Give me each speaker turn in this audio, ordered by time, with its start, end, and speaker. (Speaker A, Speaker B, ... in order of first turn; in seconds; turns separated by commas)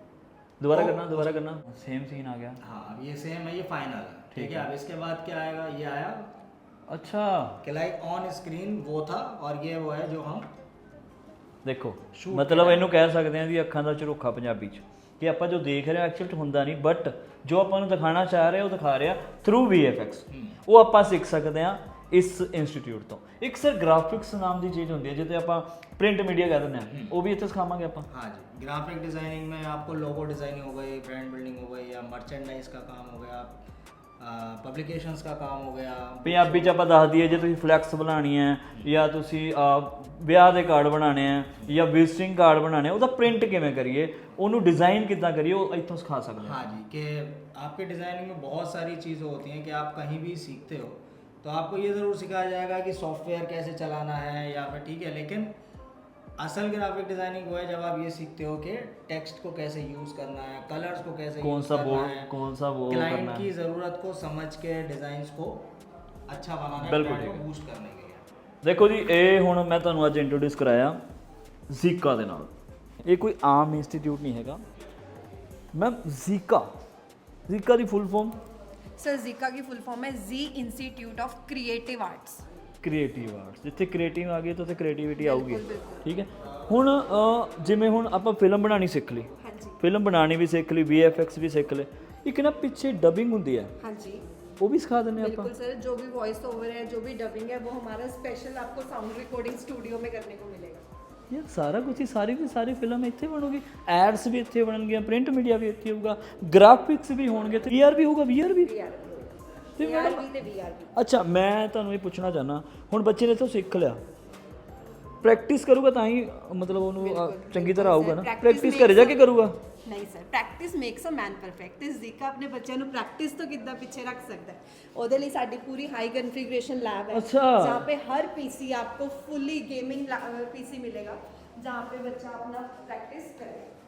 Speaker A: 0.6-2.6, Speaker B: 0.7-1.4, Speaker B: 2.6-6.3, Speaker A: 4.3-4.7, Speaker A: 6.9-7.6, Speaker B: 7.6-10.5, Speaker A: 11.6-28.1, Speaker B: 12.1-12.9, Speaker B: 20.3-20.6, Speaker B: 28.1-33.6, Speaker B: 34.2-36.7, Speaker A: 36.2-46.6, Speaker B: 46.4-55.5, Speaker B: 56.4-62.3, Speaker A: 61.4-63.5, Speaker B: 62.9-65.7, Speaker B: 66.3-68.2, Speaker A: 66.8-67.5, Speaker A: 68.6-71.0, Speaker A: 71.7-72.5, Speaker A: 73.0-74.6, Speaker A: 75.7-76.7, Speaker A: 77.5-78.4, Speaker C: 79.0-82.5, Speaker A: 82.8-93.7, Speaker C: 85.2-86.0, Speaker C: 89.4-89.8, Speaker C: 93.8-94.2, Speaker A: 94.6-95.5, Speaker C: 95.2-100.8, Speaker A: 101.3-108.7, Speaker C: 108.5-111.0, Speaker A: 109.8-110.2, Speaker A: 110.9-114.0, Speaker A: 115.2-119.6, Speaker C: 117.0-133.7, Speaker A: 127.1-127.9